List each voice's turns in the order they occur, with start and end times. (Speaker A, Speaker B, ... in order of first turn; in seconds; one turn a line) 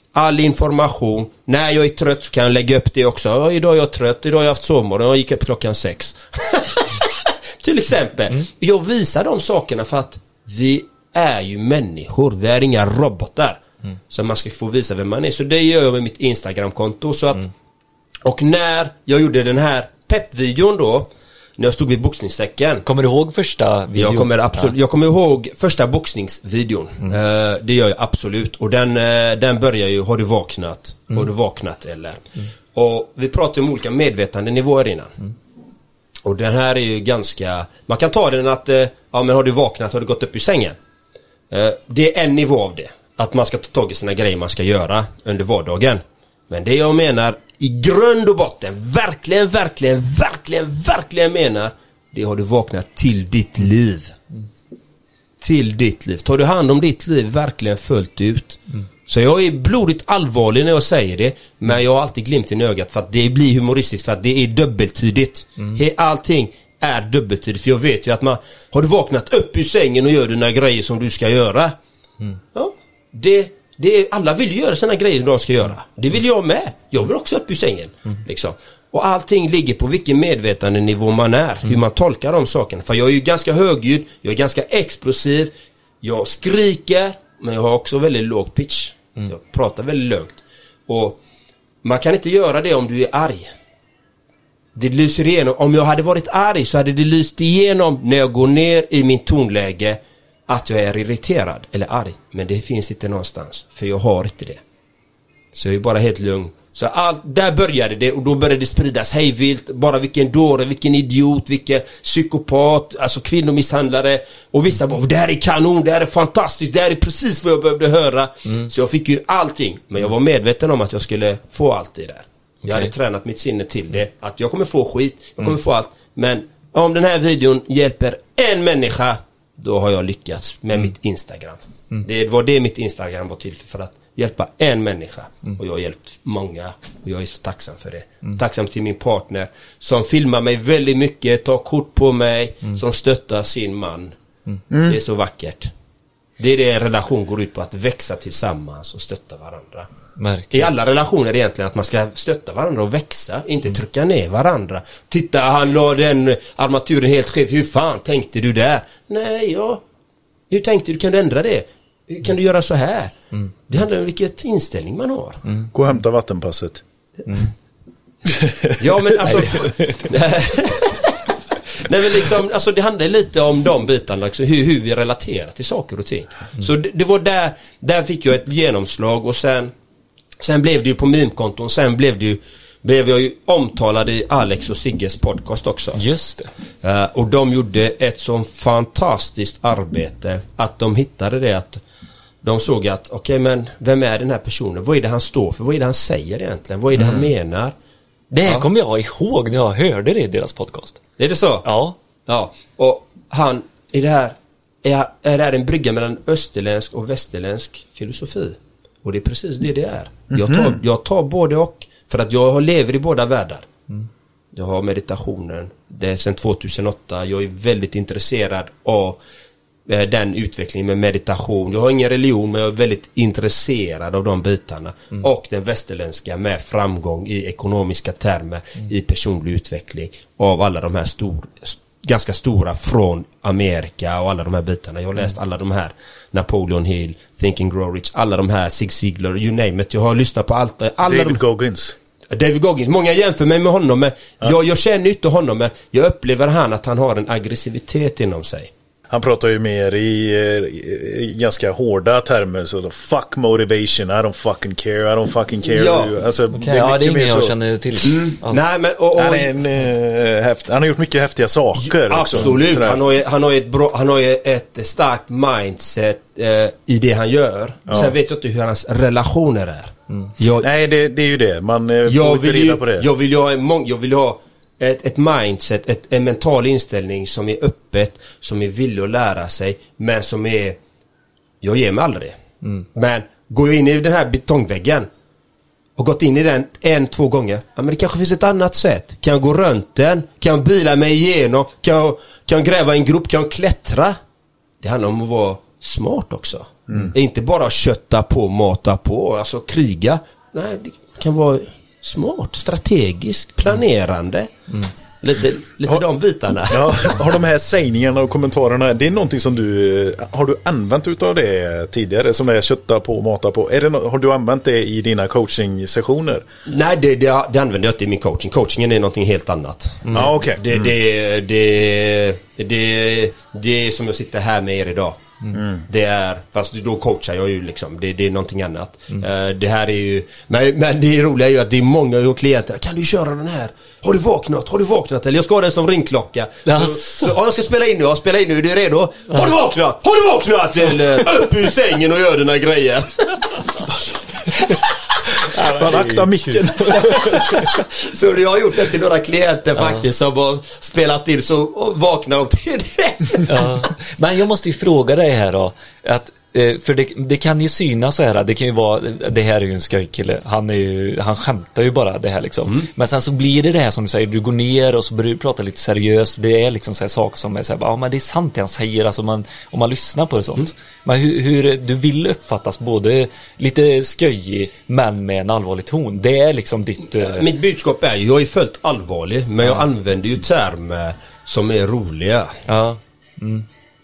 Speaker A: 0.1-17.5
Speaker A: 18.2-22.9
Speaker B: 22.9-24.7
Speaker A: 23.9-35.2
Speaker A: 36.2-40.8
Speaker A: 41.5-54.2
Speaker A: 55.4-71.7
Speaker A: 72.5-91.2
Speaker A: 91.8-93.5
Speaker A: 94.7-104.6
Speaker A: 105.5-144.1
Speaker C: 144.7-145.0
Speaker A: 144.7-145.7
Speaker A: 146.4-149.9
Speaker B: 150.2-150.7
Speaker A: 150.5-159.8
Speaker A: 160.5-163.2
Speaker A: 163.7-165.4
Speaker B: 165.4-165.7
Speaker C: 165.7-166.8
Speaker C: 168.2-168.8
Speaker A: 168.8-171.2
Speaker B: 169.3-169.7
Speaker A: 171.8-179.7
Speaker A: 180.4-186.0
Speaker B: 185.9-186.5
Speaker A: 186.8-191.8
Speaker A: 192.4-197.7
Speaker B: 197.0-197.2
Speaker B: 198.3-201.0
Speaker A: 201.2-201.7
Speaker B: 201.6-201.9
Speaker A: 202.2-213.7
Speaker A: 214.5-219.2
Speaker A: 219.9-241.4
Speaker C: 241.0-241.9
Speaker A: 242.3-248.7
Speaker C: 249.1-257.5
Speaker A: 255.7-256.1
Speaker B: 256.5-258.6
Speaker A: 258.0-259.5
Speaker C: 259.2-263.0
Speaker A: 261.8-270.7
Speaker C: 267.9-268.1
Speaker C: 270.6-273.1
Speaker A: 272.1-280.8
Speaker A: 281.6-282.4
Speaker A: 282.9-285.1
Speaker A: 286.0-294.1
Speaker A: 294.8-304.5
Speaker C: 296.9-297.1
Speaker A: 305.2-307.1
Speaker C: 306.7-316.4
Speaker A: 316.6-325.2
Speaker C: 320.1-320.8
Speaker C: 325.5-325.8
Speaker A: 325.8-344.8
Speaker B: 336.6-337.3
Speaker B: 345.5-347.5
Speaker C: 345.6-347.6
Speaker A: 347.1-353.9
Speaker B: 353.4-377.5
Speaker A: 377.2-382.6
Speaker B: 382.6-383.6